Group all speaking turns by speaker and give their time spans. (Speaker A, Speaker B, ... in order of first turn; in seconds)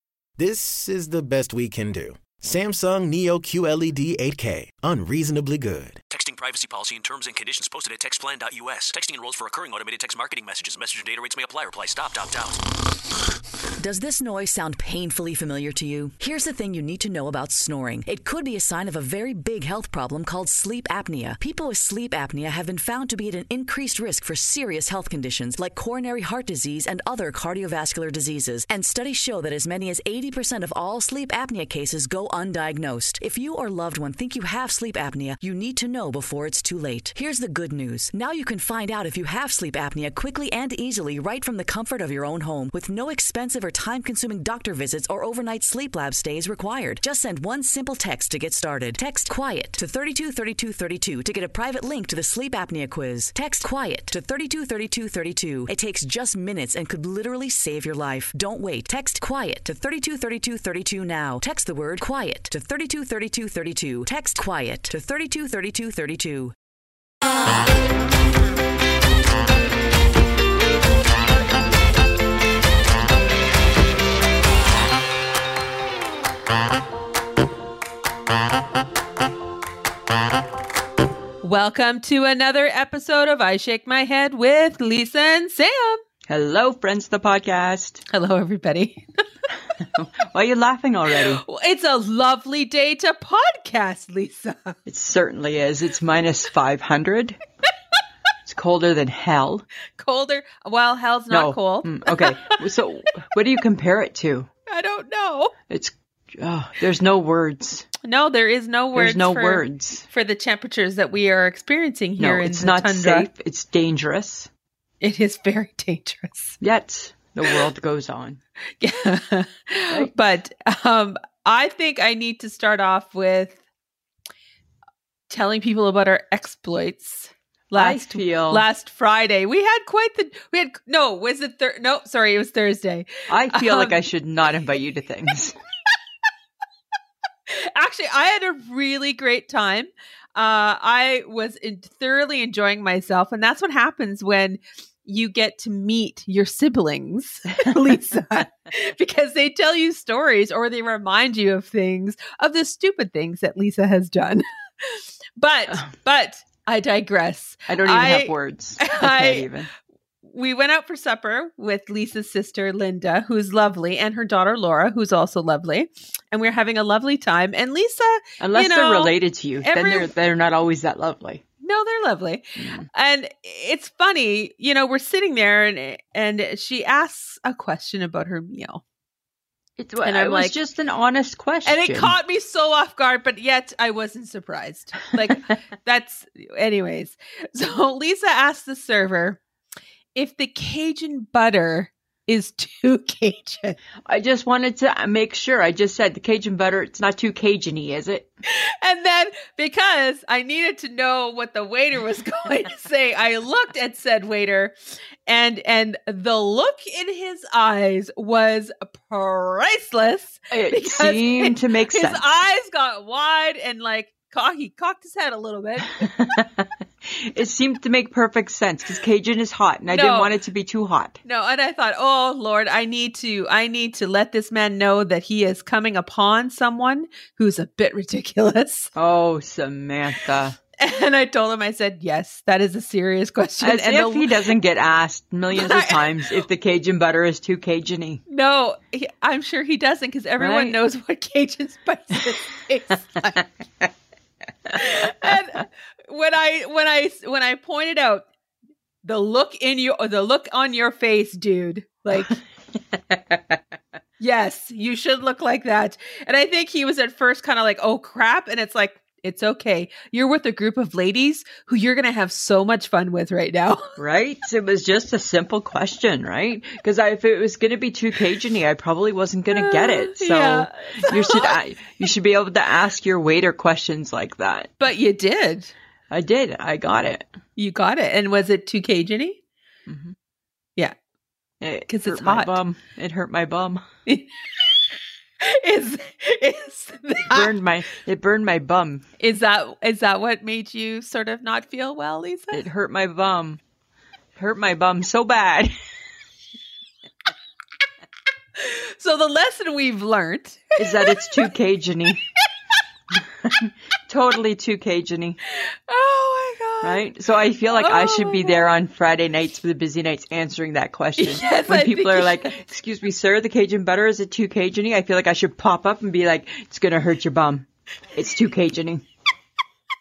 Speaker A: 0.4-6.0
Speaker B: 6.1-12.6
Speaker C: 13.8-66.5
Speaker D: 81.4-86.0, 88.1-89.2, 91.1-94.8, 100.0-102.6, 104.7-105.5, 108.0-113.3, 115.0-116.6, 118.8-123.6, 125.3-134.0, 137.5-159.5, 160.2-170.1, 171.6-178.8, 180.0-180.6, 181.6-189.4, 190.1-193.8, 198.4-216.1, 219.9-220.3, 221.2-228.9, 230.8-234.5, 235.5-236.4, 238.3-243.4, 244.7-248.2, 249.0-252.4, 254.2-264.0, 269.5-271.6, 274.8-275.7, 277.6-279.4, 281.9-282.6, 284.1-287.6, 289.2-292.6, 298.6-301.5, 305.5-307.1, 307.7-308.7, 311.2-312.7
Speaker E: 86.3-88.0, 89.8-91.4, 94.8-97.4, 98.5-99.7, 101.3-104.5, 105.7-107.9, 108.9-110.1, 112.2-114.5, 116.6-118.4, 127.7-128.7, 133.3-135.5, 157.7-159.7, 168.4-171.4, 172.6-172.8, 179.8-182.1, 194.1-198.3, 210.5-212.4, 216.1-221.2, 228.9-230.6, 233.6-238.2, 240.4-240.8, 264.0-274.7, 276.1-277.3, 279.9-280.1, 281.6-283.9, 287.3-289.1, 292.5-293.6, 294.4-295.7, 300.8-302.2, 303.1-305.4, 306.8-319.1